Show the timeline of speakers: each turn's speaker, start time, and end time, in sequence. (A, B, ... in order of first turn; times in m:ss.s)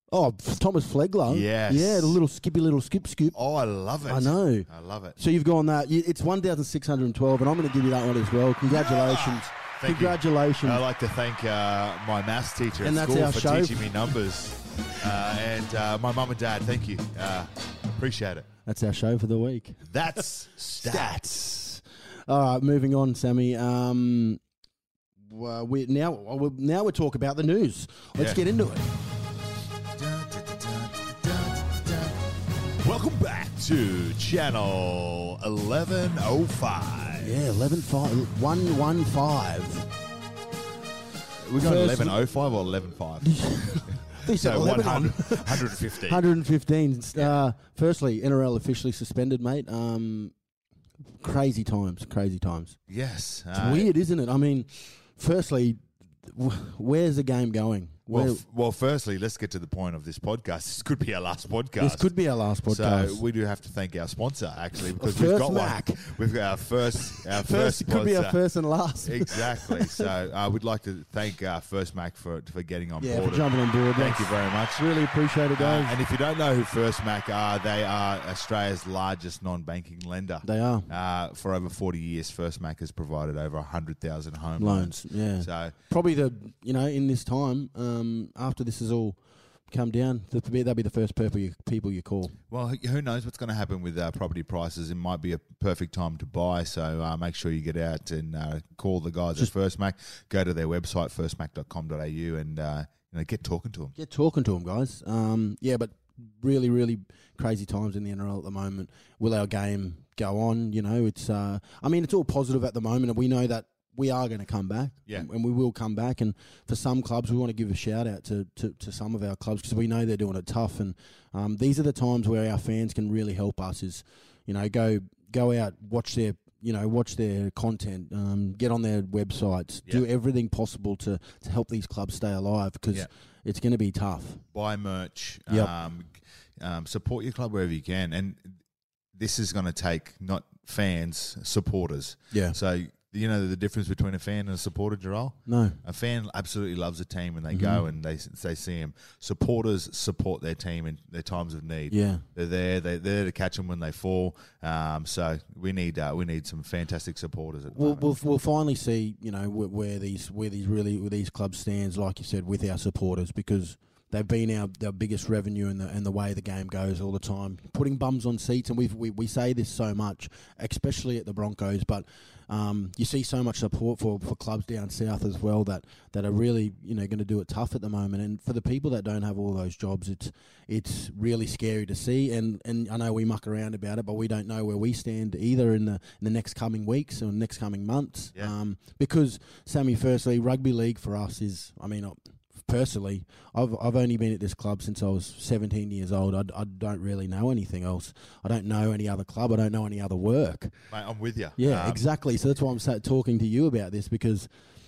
0:00.1-0:03.4 A
0:01.3-0:02.2 B
0:03.3-0:05.2 B
0:04.0-0:10.8 A
0:08.7-0:18.5 B
0:12.8-0:13.9 A
0:18.7-0:19.9 A
0:19.9-0:21.1 B
0:20.8-0:24.4 A
0:25.3-0:29.0 A
0:28.2-0:28.4 B
0:29.9-0:32.2 B
0:32.8-0:37.4 B
0:37.2-0:39.9 A
0:41.4-0:46.2 B
0:41.6-0:42.2 A
0:43.2-0:50.3 A
0:51.2-0:52.8 A
0:52.9-0:53.9 B
0:53.5-0:58.4 A
0:58.1-1:02.1 B
1:01.8-1:03.2 A
1:02.7-1:08.4 B
1:04.9-1:06.2 A
1:06.9-1:10.1 A
1:09.0-1:13.4 B
1:13.0-1:16.0 A
1:14.0-1:14.9 B
1:15.6-1:25.8 B
1:20.4-1:20.9 A
1:24.6-1:29.2 A
1:29.7-1:32.4 A
1:32.5-1:43.9 B
1:44.0-2:14.4 A
2:14.5-2:18.6 B
2:19.1-2:38.0 B
2:22.3-2:22.6 A
2:25.5-2:25.8 A
2:27.5-2:27.8 A
2:31.9-2:32.2 A
2:37.7-3:20.8 A
3:20.9-3:22.0 B
3:21.6-3:24.5 A